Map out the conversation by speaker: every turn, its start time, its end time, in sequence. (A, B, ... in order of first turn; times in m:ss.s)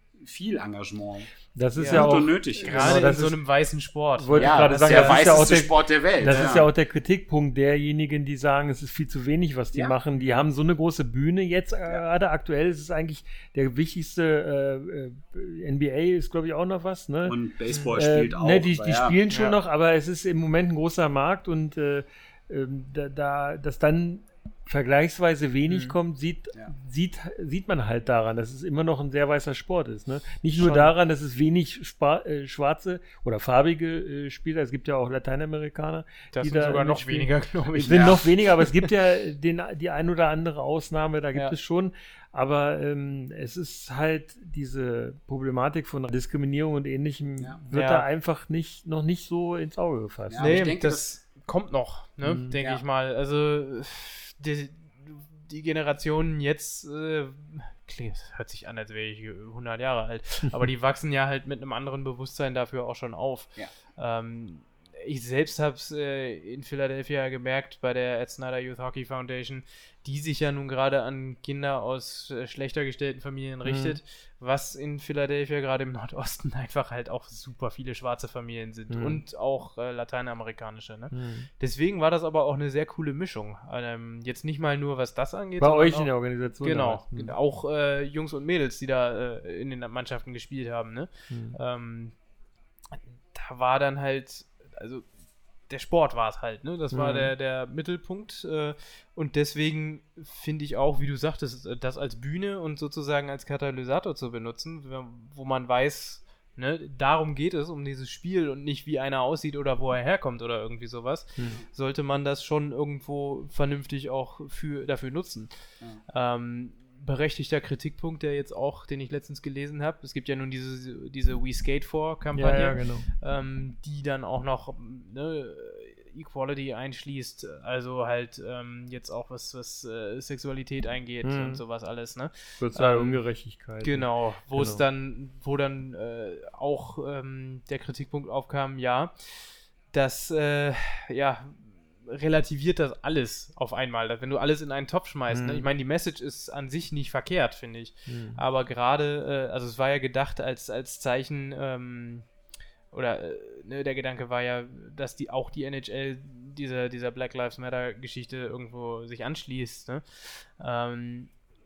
0:00.2-0:03.2 A
0:01.5-0:03.4 B
0:01.8-0:05.6 C
0:04.2-0:17.4 B
0:04.4-0:06.7 A
0:06.2-0:06.6 C
0:17.2-0:19.2 A
0:17.9-0:50.7 B
0:19.3-0:19.5 C
0:25.7-0:25.9 C
0:30.6-0:30.9 C
0:36.3-0:38.9 C
0:47.7-0:48.0 C
0:50.3-0:51.2 A
0:50.4-1:32.2 C
0:52.2-0:52.6 B
1:13.6-1:14.0 B
1:18.9-1:19.2 B
1:21.1-1:21.5 B
1:25.6-1:27.3 B
1:31.3-1:31.6 B
1:32.9-1:35.1 C
1:35.7-1:55.5 C
1:36.9-1:37.3 B
1:56.1-2:13.2 C
2:02.4-2:03.1 B
2:11.2-2:11.6 B
2:12.6-2:14.8 B
2:13.8-2:32.2 C
2:25.3-2:25.6 B
2:28.1-2:28.4 B
2:32.9-2:41.3 C